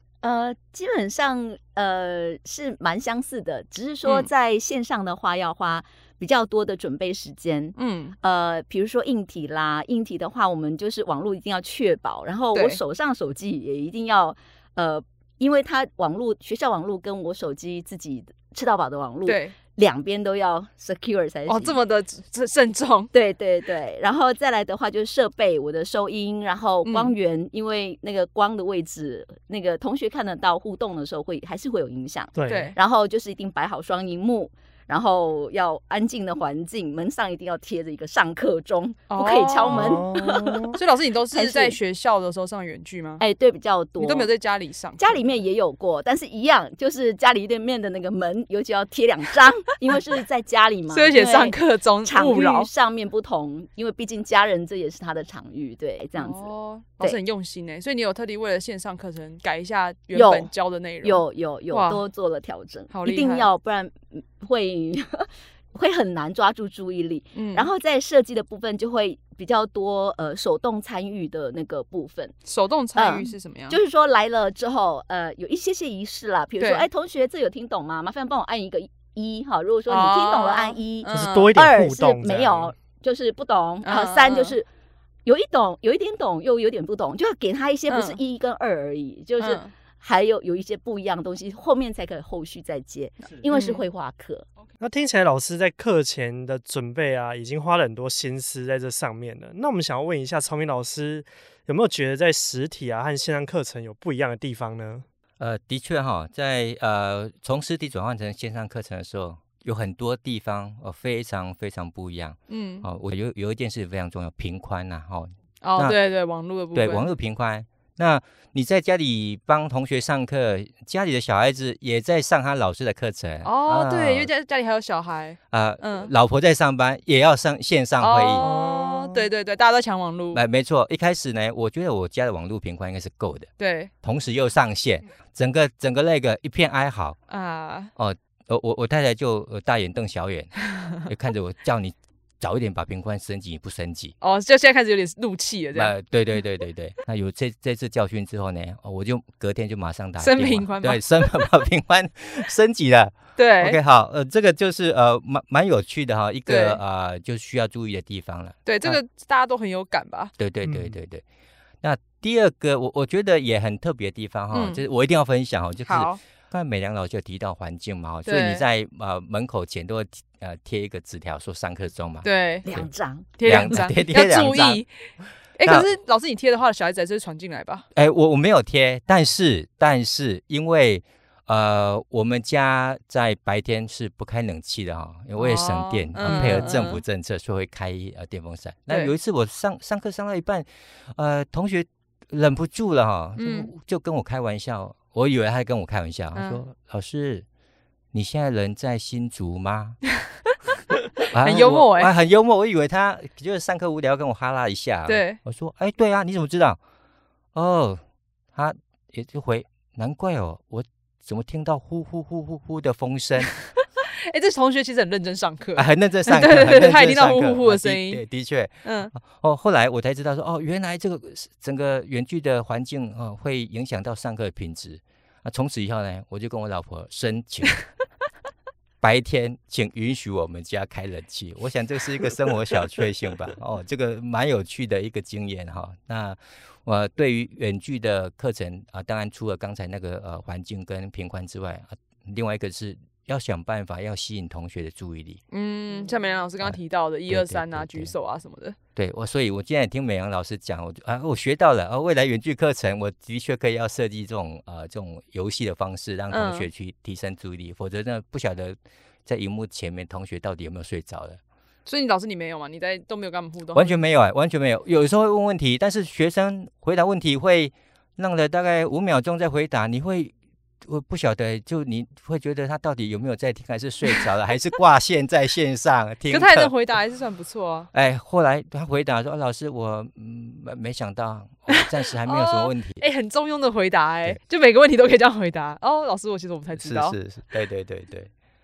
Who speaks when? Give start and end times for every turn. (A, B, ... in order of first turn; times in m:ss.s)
0:00.2-0:21.8 A
0:07.8-0:08.2 B
0:19.3-0:19.6 B
0:21.5-0:23.1 B
0:23.1-0:40.7 A
0:26.8-0:27.1 B
0:32.4-0:32.7 C
0:32.5-0:32.8 B
0:39.1-0:40.1 B
0:39.7-0:40.8 C
0:40.7-0:43.2 B
0:41.3-0:41.8 A
0:43.2-0:44.3 A
0:44.0-0:45.2 B
0:45.0-0:56.4 A
0:50.9-0:52.7 B
0:56.2-1:02.0 B
1:00.1-1:00.5 A
1:01.0-1:12.3 A
1:02.9-1:03.5 B
1:07.4-1:07.7 B
1:12.5-1:13.8 B
1:13.0-1:24.7 A
1:16.6-1:16.9 B
1:19.9-1:21.5 B
1:21.1-1:22.7 C
1:23.8-1:24.6 B
1:25.3-1:34.4 A
1:27.9-1:28.2 B
1:29.4-1:29.7 B
1:33.5-1:33.8 B
1:34.8-1:45.0 C
1:45.4-1:56.0 D
1:52.5-1:52.9 B
1:55.6-1:57.1 B
1:56.7-2:04.3 D
2:03.4-2:06.1 B
2:05.5-2:08.5 D
2:08.0-2:10.4 B
2:08.4-2:09.3 C
2:10.3-2:13.5 D
2:13.6-2:13.9 B
2:14.0-2:17.2 D
2:17.3-2:17.9 B
2:18.0-2:24.2 D
2:24.2-2:26.0 B
2:25.8-2:39.0 D
2:30.2-2:31.5 B
2:33.4-2:33.8 B
2:36.5-2:36.8 B
2:38.7-2:40.3 B
2:40.4-2:41.2 D
2:40.6-2:41.0 C
2:41.8-2:52.9 D
2:44.5-2:44.8 B
2:45.9-2:46.2 B
2:48.2-2:48.6 B
2:52.2-2:52.6 B
2:52.6-2:53.4 A
2:53.4-2:54.9 B
2:53.4-2:54.8 D
2:55.6-2:57.9 B
2:55.6-2:55.9 D
2:58.0-3:17.5 D
3:05.4-3:07.0 B
3:06.3-3:06.6 C
3:13.4-3:13.7 B
3:16.4-3:16.6 B
3:18.1-3:20.0 D
3:21.3-3:26.8 D
3:21.4-3:22.1 B
3:25.1-3:25.4 B
3:27.5-3:28.0 D
3:28.6-3:33.6 D
3:34.2-3:38.2 B
3:35.8-3:47.9 D
3:38.8-3:39.1 B
3:49.0-4:05.4 D
4:05.5-4:08.8 B
4:06.6-4:08.1 D
4:09.0-4:21.4 D
4:16.3-4:16.7 B
4:21.9-4:24.0 B
4:23.7-4:30.3 D
4:30.8-4:36.7 D
4:36.3-4:37.9 B
4:37.9-4:43.0 D
4:41.8-4:47.2 B
4:46.8-4:48.3 D